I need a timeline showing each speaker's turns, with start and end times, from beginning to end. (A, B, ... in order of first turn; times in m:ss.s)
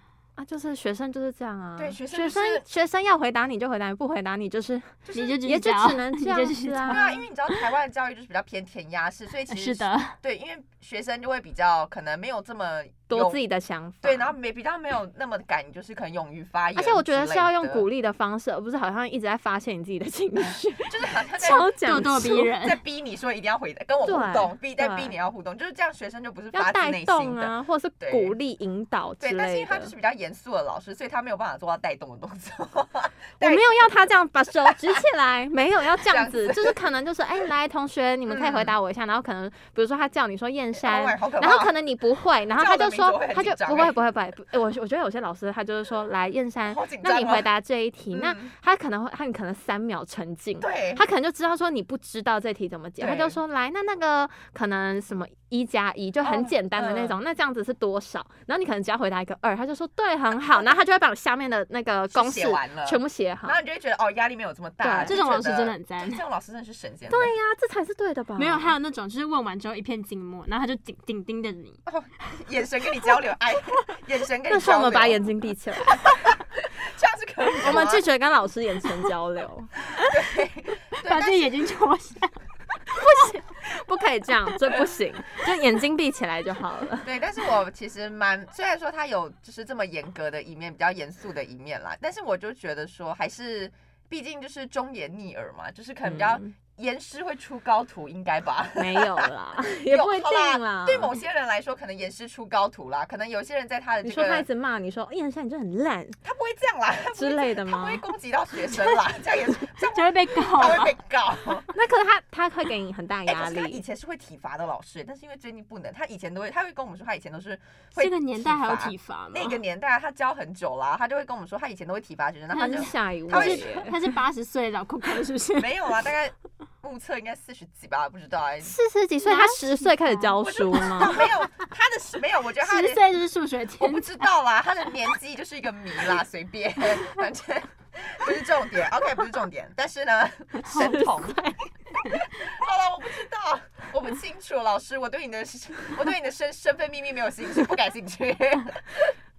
0:00.4-0:07.1 A
0:01.8-0:02.6 B
0:05.1-0:05.4 B
0:05.1-0:07.6 C
0:06.9-0:13.4 B
0:09.5-0:10.1 C
0:13.1-0:14.3 A
0:14.0-0:17.8 B
0:16.7-0:22.5 A
0:20.8-0:28.3 B
0:21.4-0:22.8 C
0:24.0-0:25.1 A
0:26.5-0:29.9 A
0:29.2-0:33.8 B
0:33.4-1:03.6 A
0:34.6-0:35.0 B
0:36.0-0:36.8 B
0:38.3-0:38.7 B
0:40.8-0:41.7 B
0:42.5-0:44.0 B
0:46.7-0:47.5 B
0:48.1-0:48.5 B
0:50.6-0:51.0 B
0:53.0-0:53.4 B
0:56.2-0:57.2 B
1:02.1-1:07.3 B
1:04.8-1:05.1 A
1:05.1-1:06.2 C
1:07.1-1:08.7 A
1:08.4-1:11.8 C
1:11.8-1:15.2 B
1:14.5-1:16.1 A
1:15.9-1:18.0 B
1:17.6-1:19.7 A
1:20.0-1:21.6 B
1:21.0-1:22.3 C
1:22.9-1:27.1 A
1:27.0-1:39.3 B
1:36.0-1:36.5 A
1:38.8-1:41.2 A
1:39.8-1:44.4 B
1:44.0-1:46.2 A
1:46.2-1:51.7 B
1:47.1-1:48.0 A
1:49.9-1:50.9 C
1:51.7-1:53.8 A
1:53.3-2:03.9 B
1:58.0-1:59.6 C
2:02.5-2:03.9 A
2:02.6-2:05.7 C
2:05.6-2:08.7 B
2:08.6-2:11.2 A
2:09.2-2:10.2 C
2:10.4-2:13.0 B
2:12.6-2:14.2 C
2:13.8-2:29.1 B
2:20.7-2:21.5 A